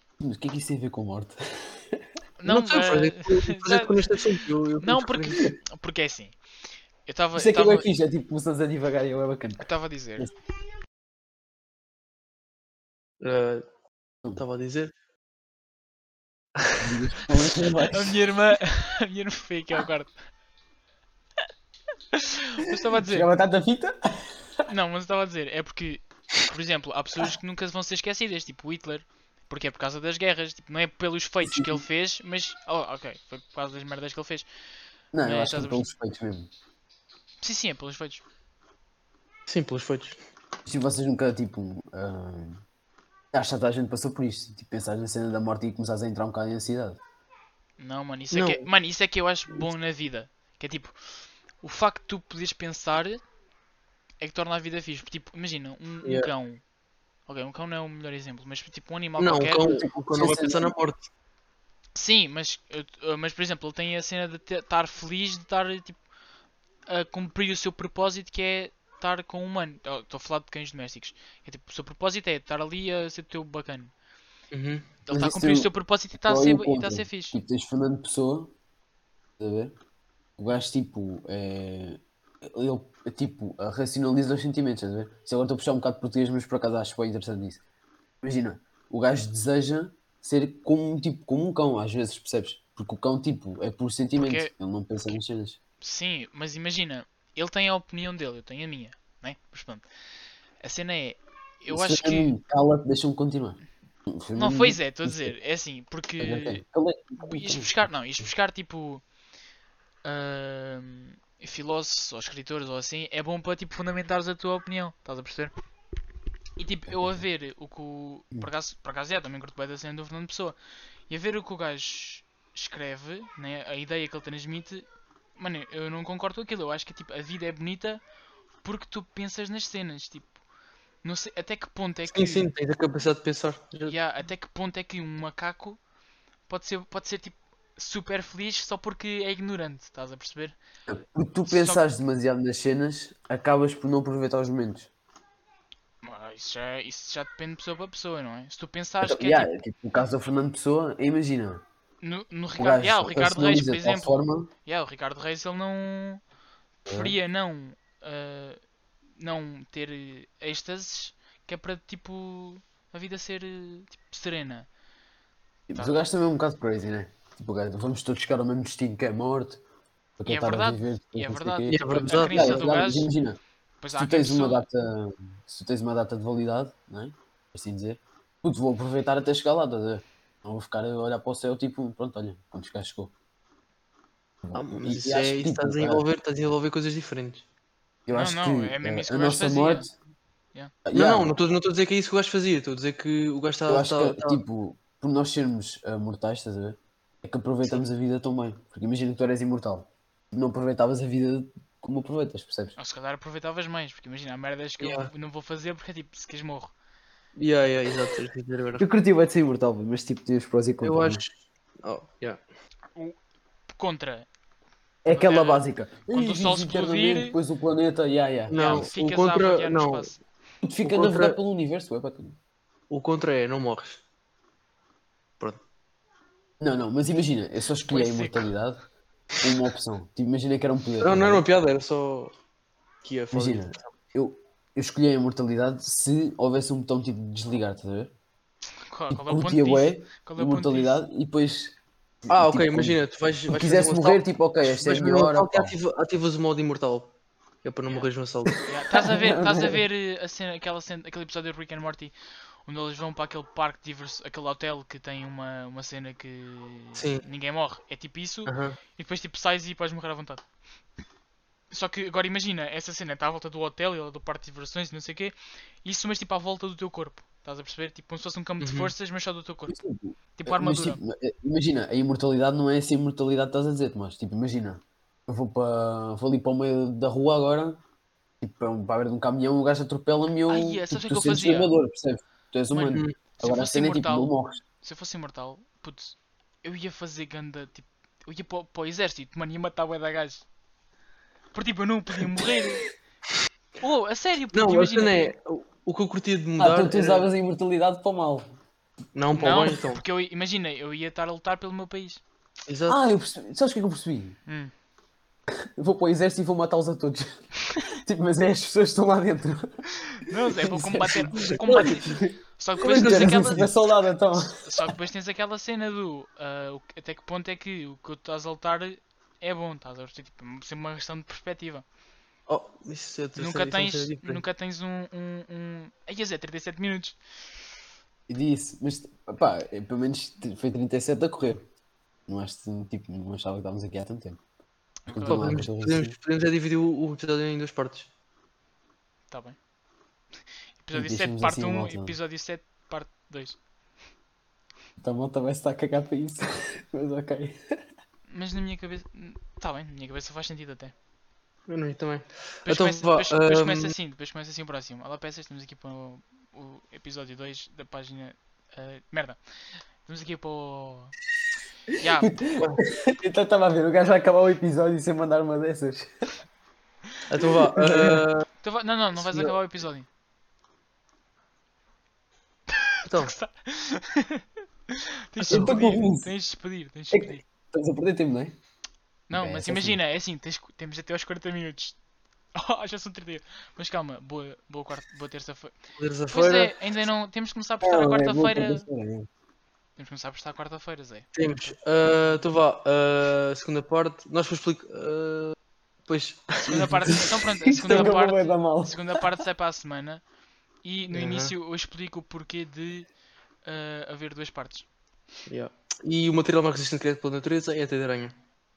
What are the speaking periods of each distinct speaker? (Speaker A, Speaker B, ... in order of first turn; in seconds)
Speaker A: 0.2-2.0, 7.3-9.7, 16.8-18.2, 22.9-24.7, 31.4-31.8, 35.1-36.5, 40.7-42.6, 43.3-47.0, 59.6-60.7, 75.1-75.7, 76.2-78.5, 79.4-79.7, 80.4-87.6, 88.2-95.6, 101.7-105.3, 106.2-107.9, 116.9-117.2, 140.9-144.9, 149.0-151.6, 152.6-154.5, 156.9-157.2, 165.7-169.6, 170.2-173.4, 174.0-183.1, 184.4-186.0, 188.1-189.9, 190.8-191.3, 193.7-202.8, 208.8-211.2, 215.0-218.9, 220.6-222.3, 226.6-228.8, 229.4-231.4, 233.3-238.1, 239.1-245.8, 248.5-249.8, 269.7-277.8, 278.4-284.6, 296.6-298.5, 302.9-304.4, 305.8-307.3, 307.8-309.8, 310.5-314.6, 328.3-331.6, 332.3-334.4, 335.1-336.1, 340.9-342.2, 345.0-347.6, 362.2-366.1, 367.4-368.2, 375.5-376.3, 377.1-378.5, 379.3-380.0, 387.8-389.3, 397.7-399.0
Speaker B: 2.4-4.2, 4.8-6.3, 7.0-7.9, 9.6-10.3, 17.9-20.1, 22.1-23.3, 24.7-34.5, 35.2-35.9, 37.4-38.2, 47.8-51.0, 51.6-53.2, 54.2-56.6, 57.3-59.6, 61.9-66.0, 66.9-73.9, 75.1-77.4, 94.2-94.5, 95.8-99.9, 100.6-102.3, 104.3-106.6, 107.2-109.0, 110.0-115.5, 116.6-120.5, 121.1-124.8, 125.4-128.0, 128.6-130.3, 131.0-132.5, 133.9-135.8, 136.5-140.6, 141.5-141.8, 146.0-149.5, 152.0-156.2, 156.9-158.6, 159.2-164.7, 170.3-173.1, 173.8-174.6, 188.1-189.9, 202.8-206.7, 213.7-214.3, 215.1-217.4, 218.5-220.2, 227.9-228.5, 238.9-241.0, 248.7-252.1, 252.7-260.4, 261.7-269.8, 270.4-271.0, 280.5-281.7, 282.7-290.4, 291.5-292.8, 293.8-295.3, 299.3-302.2, 304.5-304.7, 310.1-313.7, 314.3-321.8, 323.4-327.2, 335.0-335.5, 339.3-339.6, 340.8-343.6, 348.3-350.9, 352.6-359.4, 360.0-361.1, 362.0-362.4, 368.6-370.1, 372.8-377.4, 379.3-382.0, 382.5-385.7, 386.3-388.8, 390.0-392.4, 396.6-400.2, 400.8-403.1, 403.6-404.9
Speaker C: 2.5-5.4, 13.2-13.6, 14.3-14.9, 39.5-40.2, 48.3-48.6, 56.0-56.3, 59.2-61.0, 74.5-74.9, 132.1-133.9, 171.7-172.7, 184.5-187.4, 190.9-194.4, 204.8-205.1, 207.3-208.8, 210.8-212.4, 218.5-220.1, 220.8-221.4, 222.9-224.0, 231.0-232.3, 233.0-233.7, 242.3-247.1, 247.6-248.6, 256.9-257.2, 258.4-258.8, 268.6-268.9, 294.5-297.3, 299.1-300.0, 302.7-303.0, 312.8-313.7, 322.5-324.4, 335.3-338.1, 351.7-353.9, 367.3-368.4, 369.1-369.5, 373.1-373.3, 375.4-375.8, 386.0-386.8, 391.3-395.6, 396.1-397.2, 401.1-401.5, 405.5-408.3